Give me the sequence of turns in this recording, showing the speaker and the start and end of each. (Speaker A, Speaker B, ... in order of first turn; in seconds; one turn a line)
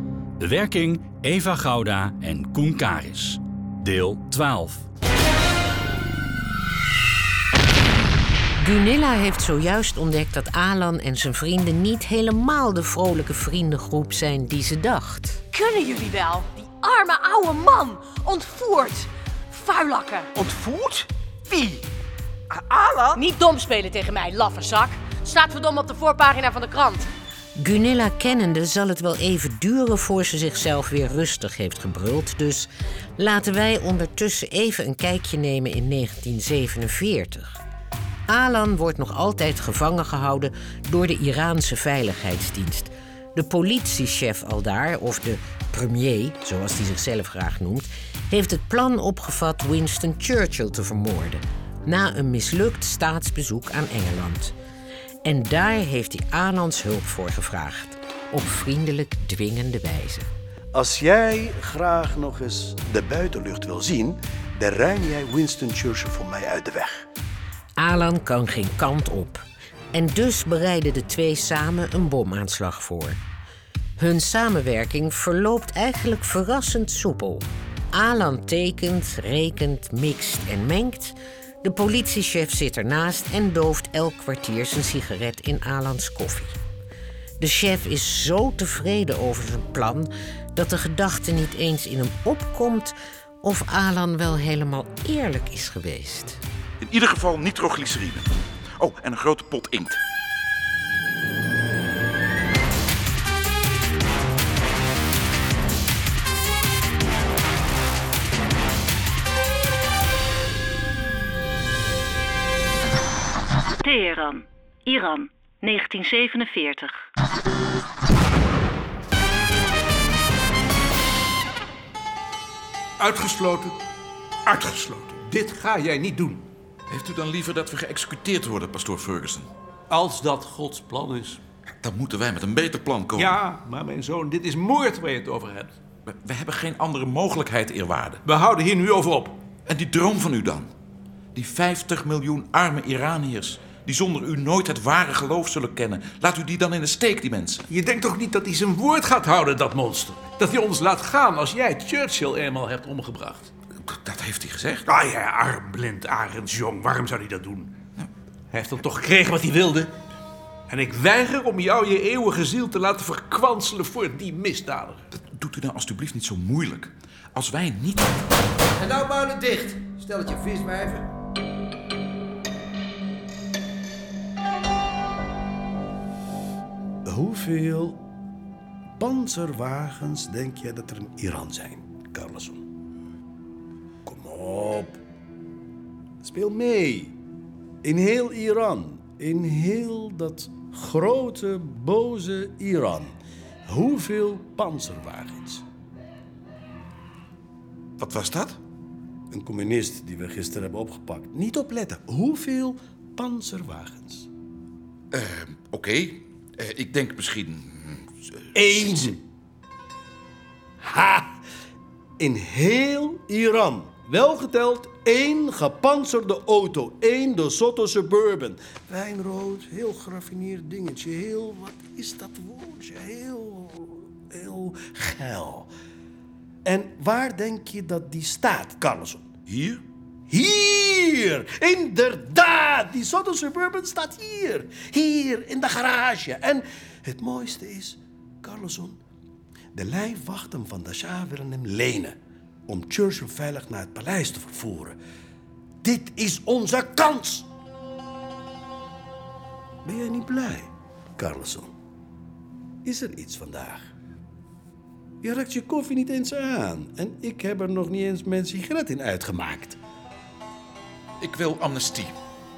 Speaker A: 0.4-4.8
Speaker B: 8.6-15.4
Speaker C: 15.5-21.8
Speaker C: 22.5-27.1
Speaker B: 27.6-37.6
Speaker B: 38.3-54.5
Speaker B: 55.2-60.3
Speaker D: 60.7-67.0
Speaker B: 67.8-73.2
Speaker B: 74.0-86.6
Speaker B: 87.4-96.4
Speaker E: 96.8-100.0
Speaker F: 113.8-116.9
Speaker G: 123.0-123.8
Speaker G: 124.4-126.5
Speaker E: 126.9-129.5
Speaker G: 129.9-131.4
Speaker E: 131.8-133.4
Speaker G: 133.1-135.7
Speaker E: 136.1-138.2
Speaker G: 138.2-139.4
Speaker E: 139.7-140.7
Speaker E: 141.3-147.7
Speaker G: 147.7-153.5
Speaker E: 153.8-154.9
Speaker G: 154.9-157.8
Speaker G: 158.5-159.9
Speaker G: 160.7-165.0
Speaker E: 165.1-168.2
Speaker H: 168.7-171.1
Speaker D: 177.1-178.0
Speaker D: 179.0-182.6
Speaker D: 184.0-185.0
Speaker D: 186.2-187.2
Speaker D: 187.8-193.1
Speaker D: 193.7-195.6
Speaker E: 198.0-198.6
Speaker D: 199.3-204.3
Speaker E: 205.1-209.1
Speaker D: 208.5-209.2
Speaker D: 210.8-211.4
Speaker D: 212.2-225.7
Speaker D: 226.6-229.3
Speaker E: 229.5-229.8
Speaker D: 230.3-239.0
Speaker D: 239.7-245.0
Speaker D: 245.8-247.4
Speaker D: 249.8-251.7
Speaker D: 252.8-253.9
Speaker D: 255.2-259.8
Speaker E: 261.2-262.1